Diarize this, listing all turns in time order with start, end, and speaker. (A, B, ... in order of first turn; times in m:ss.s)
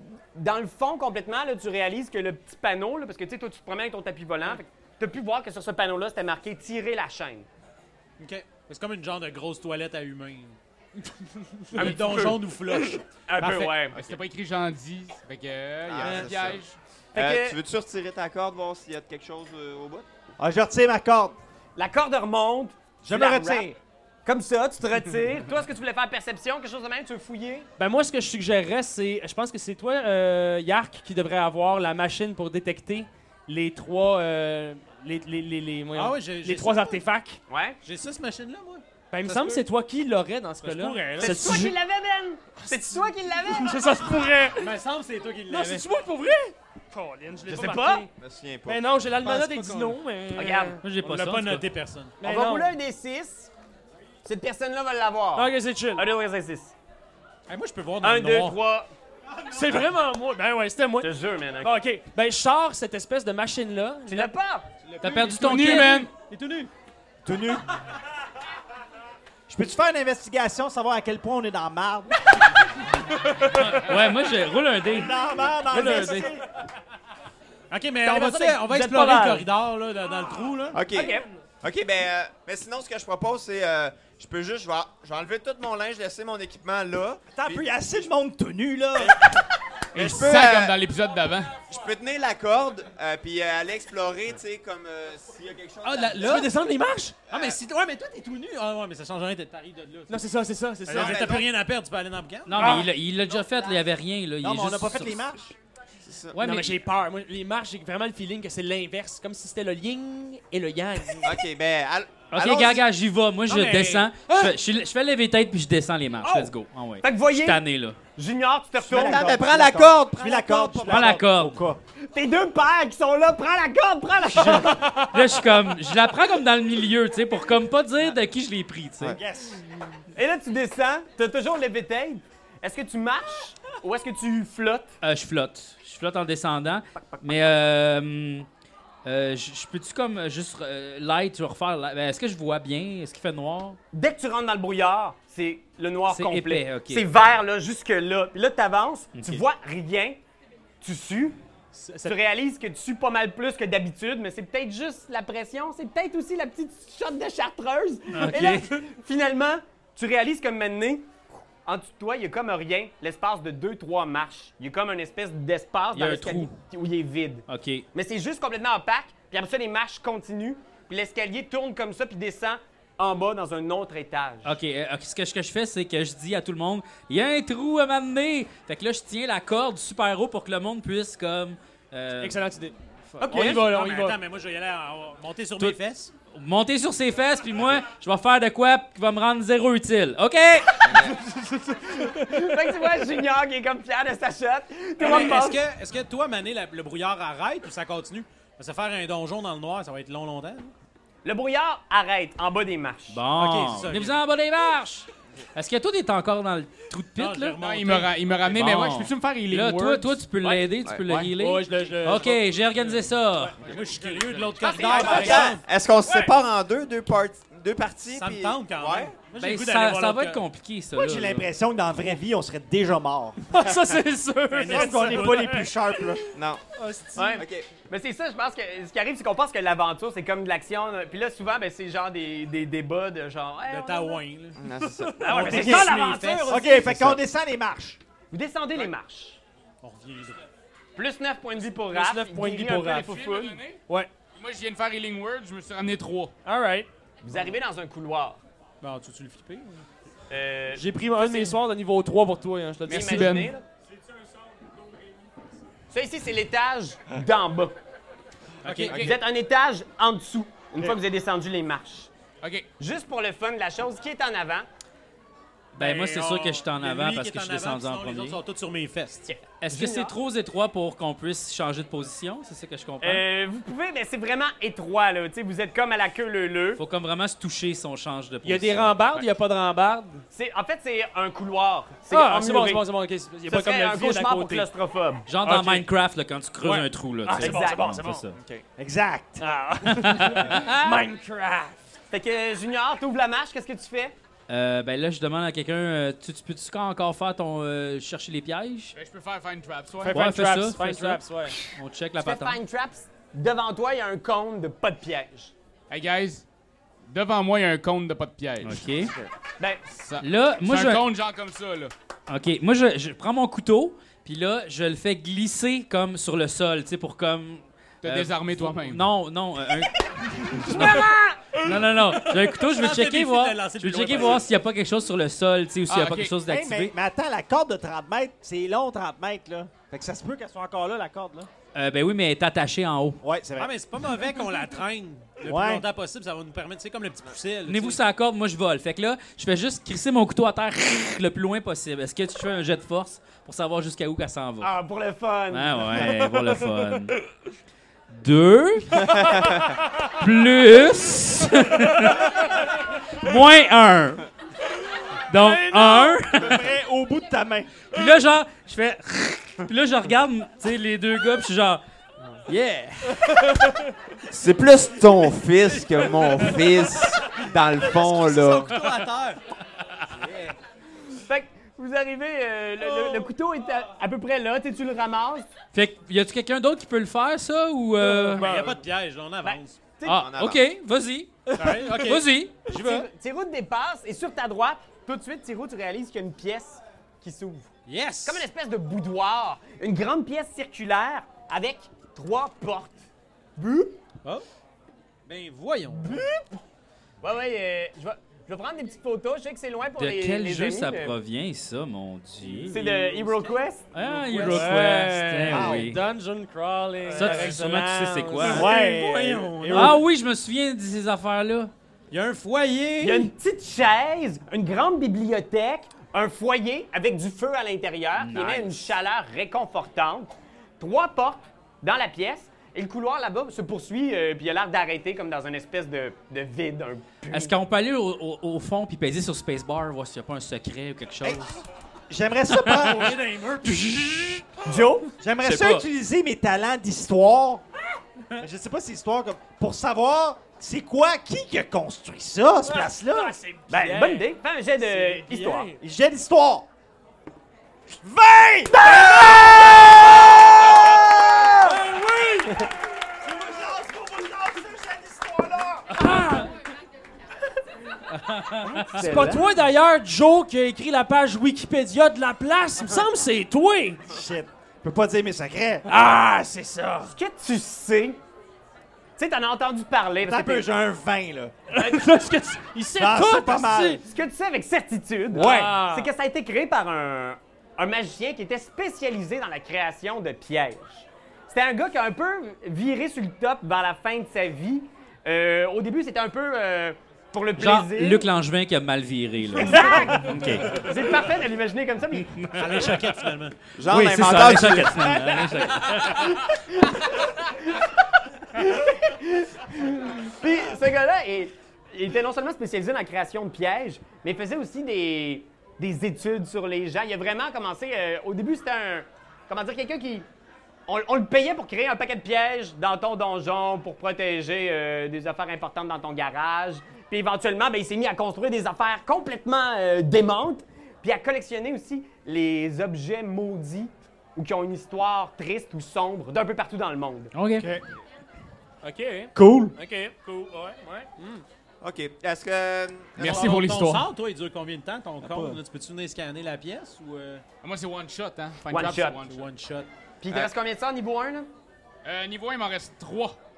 0:00.3-0:07.5 A
0:08.2-0:10.6 B
0:11.7-0:13.0 B
0:11.7-0:12.4 A
0:13.2-0:14.0 A
0:13.4-0:13.7 C
0:14.0-0:16.8 D
0:15.9-0:16.6 E
0:17.1-0:17.6 A
0:17.1-0:20.0 E
0:20.4-0:21.4 F
0:21.8-0:27.7 A
0:23.0-0:23.8 F
0:27.8-0:37.4 C
0:35.9-0:37.0 B
0:37.5-0:37.8 A
0:37.8-0:39.6 B
0:39.1-0:41.7 C
0:40.6-0:41.5 B
0:41.2-0:43.9 A
0:42.6-0:44.8 C
0:44.6-0:45.9 B
0:45.5-0:48.1 C
0:47.4-0:48.0 A
0:48.2-0:49.0 E
0:48.6-0:50.8 C
0:49.2-0:50.0 B
0:50.3-0:50.8 A
0:50.8-0:51.7 G
0:51.0-0:52.2 B
0:52.2-0:52.7 C
0:52.2-0:53.5 A
0:54.2-0:56.7 A
0:55.4-0:56.0 C
0:57.5-0:58.6 B
0:58.0-0:58.9 A
0:59.4-1:04.3 C
1:01.0-1:01.7 A
1:04.1-1:04.7 A
1:04.8-1:06.7 B
1:05.0-1:06.1 G
1:05.3-1:06.1 D
1:07.2-1:07.6 F
1:09.5-1:12.2 F
1:13.5-1:16.3 G
1:14.8-1:16.4 F
1:17.7-1:20.8 B
1:18.0-1:19.5 A
1:20.7-1:27.7 E
1:20.9-1:21.3 A
1:27.3-1:29.2 F
1:29.9-1:31.5 D
1:29.9-1:30.8 E
1:31.7-1:36.5 E
1:35.8-1:36.5 B
1:36.2-1:37.2 C
1:37.3-1:37.6 E
1:37.3-1:40.1 B
1:40.1-1:41.4 C
1:40.9-1:42.8 B
1:40.9-1:41.5 E
1:42.4-1:45.3 G
1:42.6-1:42.9 C
1:42.6-1:43.8 E
1:44.4-1:45.5 F
1:46.0-1:46.4 E
1:46.3-1:46.8 G
1:46.4-1:51.4 C
1:51.2-1:52.8 E
1:52.3-1:58.0 G
1:53.5-1:54.6 B
1:56.2-1:57.6 A
1:58.2-1:59.4 A
1:58.8-2:01.8 F
1:58.9-2:01.2 E
2:00.8-2:01.6 G
2:02.0-2:04.9 A
2:04.6-2:09.2 G
2:09.0-2:09.6 F
2:10.1-2:14.9 A
2:15.0-2:18.5 G
2:19.0-2:23.8 G
2:23.9-2:30.2 A
2:26.1-2:27.0 G
2:29.1-2:29.4 G
2:30.8-2:31.4 A
2:31.7-2:32.1 C
2:32.0-2:54.6 A
2:38.1-2:38.7 G
2:45.9-2:46.6 G
2:47.5-2:47.8 G
2:54.4-3:02.5 G
3:02.2-3:04.2 C
3:03.2-3:04.0 A
3:03.3-3:06.1 B
3:06.3-3:11.0 G
3:10.8-3:11.2 E
3:10.9-3:15.6 A
3:15.0-3:20.7 B
3:21.2-3:23.2 A
3:23.1-3:27.6 G
3:23.3-3:24.2 B
3:27.1-3:28.2 B
3:27.6-3:30.5 D
3:28.4-3:33.6 G
3:30.8-3:31.2 E
3:31.3-3:32.5 C
3:32.8-3:35.6 B
3:33.6-3:35.4 D
3:34.6-3:35.4 A
3:34.9-3:39.2 E
3:38.1-3:40.4 B
3:39.3-3:41.5 G
3:40.9-3:43.4 F
3:43.4-3:47.4 C
3:44.5-3:45.4 B
3:44.6-3:46.2 F
3:46.4-3:46.6 E
3:47.2-3:54.2 A
3:47.4-3:47.7 E
3:53.6-3:54.6 B
3:54.6-3:55.5 E
3:55.2-3:56.9 A
3:55.3-3:56.8 B
3:55.3-3:58.0 F
3:56.8-3:57.2 E
3:58.3-3:59.4 A
3:59.8-4:00.4 B
4:01.0-4:03.6 A
4:01.6-4:03.2 C
4:02.8-4:03.8 D
4:04.4-4:06.3 D
4:06.4-4:06.9 C
4:07.2-4:08.4 A
4:08.8-4:09.9 B
4:10.3-4:11.6 A
4:10.7-4:13.4 C
4:12.9-4:13.5 D
4:12.9-4:13.6 A
4:15.9-4:17.8 A
4:18.6-4:19.1 B
4:18.7-4:22.1 A
4:22.4-4:22.7 D
4:22.8-4:24.7 A
4:25.7-4:29.3 B
4:25.8-4:28.4 G
4:29.3-4:30.1 A
4:29.6-4:33.2 G
4:33.0-4:36.8 A
4:36.8-4:39.2 G
4:38.4-4:40.2 C
4:40.3-4:42.8 A
4:42.1-4:44.7 C
4:43.5-4:45.2 A
4:45.3-4:48.3 G
4:45.4-4:45.9 C
4:46.6-4:48.3 C
4:47.4-4:48.0 A
4:48.4-4:48.6 E
4:48.8-4:49.4 F
4:49.4-4:51.8 C
4:49.9-4:51.0 G
4:52.1-4:54.1 A
4:54.5-4:58.9 G
4:58.9-5:00.3 D
5:00.0-5:01.6 C
5:00.1-5:02.6 G
5:02.2-5:05.5 A
5:05.9-5:06.4 D
5:07.1-5:08.8 D
5:08.6-5:09.1 G
5:09.6-5:09.9 A
5:10.0-5:11.9 D
5:10.2-5:11.0 G
5:12.3-5:26.9 G
5:18.0-5:19.0 D
5:20.6-5:21.2 A
5:21.8-5:24.5 B
5:25.9-5:26.3 D
5:26.4-5:31.5 F
5:31.7-5:33.2 G
5:33.2-5:33.7 F
5:33.6-5:38.0 B
5:35.4-5:35.8 F
5:37.6-5:44.7 G
5:44.6-5:46.1 A
5:45.5-5:47.2 G
5:46.4-5:46.8 C
5:48.1-5:49.2 G
5:49.2-5:49.6 E
5:50.0-5:54.2 G
5:55.3-5:56.7 G
5:55.5-5:57.9 F
5:57.9-6:01.8 G
6:02.4-6:03.4 G
6:04.3-6:08.8 E
6:07.9-6:09.4 B
6:10.1-6:10.5 B
6:11.1-6:15.5 A
6:12.8-6:13.3 B
6:15.7-6:18.5 G
6:18.1-6:19.9 B
6:18.4-6:18.8 C
6:18.4-6:18.8 A
6:19.4-6:20.2 A
6:20.0-6:22.7 G
6:20.1-6:20.6 E
6:21.4-6:21.9 C
6:21.6-6:22.3 B
6:22.7-6:27.7 A
6:27.9-6:28.5 B
6:28.2-6:33.0 A
6:33.6-6:34.0 A
6:35.2-6:36.3 B
6:36.0-6:36.4 A
6:37.2-6:41.1 A
6:40.0-6:42.8 G
6:42.4-6:44.6 B
6:42.7-6:44.6 A
6:43.9-6:46.0 G
6:44.2-6:48.7 C
6:45.5-6:45.9 F
6:47.1-6:47.6 A
6:47.1-6:48.7 G
6:48.4-6:50.0 F
6:48.4-6:50.0 B
6:49.7-6:51.7 G
6:52.1-6:53.3 B
6:53.0-7:07.6 A
6:58.2-6:58.8 G
7:07.3-7:11.5 G
7:12.1-7:13.2 F
7:12.6-7:13.9 B
7:14.6-7:15.1 A
7:15.2-7:17.6 F
7:15.4-7:15.8 G
7:18.4-7:23.4 F
7:22.6-7:25.8 C
7:23.7-7:25.7 A
7:25.8-7:26.7 F
7:27.9-7:36.0 F
7:28.7-7:30.3 A
7:31.4-7:31.7 A
7:31.6-7:32.7 C
7:35.9-7:36.5 C
7:38.1-7:39.0 G
7:38.6-7:39.5 A
7:38.8-7:44.0 C
7:44.1-7:45.9 F
7:45.9-7:47.2 C
7:47.1-7:48.2 A
7:49.2-7:50.7 A
7:50.2-7:51.5 F
7:51.7-7:54.0 C
7:51.7-7:52.1 A
7:53.0-7:54.0 F
7:54.1-8:08.3 A
7:55.3-7:56.1 C
7:55.4-7:55.7 F
8:07.6-8:10.8 G
8:09.5-8:12.4 A
8:12.3-8:12.8 G
8:12.5-8:13.6 B
8:13.8-8:15.2 E
8:13.8-8:16.3 G
8:16.2-8:17.9 A
8:18.4-8:30.2 A
8:30.9-8:47.3 A
8:47.3-8:47.7 G
8:47.6-8:47.8 F
8:48.8-8:51.4 C
8:49.4-8:49.7 F
8:51.8-8:53.5 E
8:53.2-8:54.1 D
8:53.2-8:57.4 B
8:55.2-8:55.6 F
8:57.6-8:59.4 D
8:58.7-8:59.2 A
8:59.2-8:59.9 B
9:00.2-9:01.5 A
9:02.0-9:03.4 D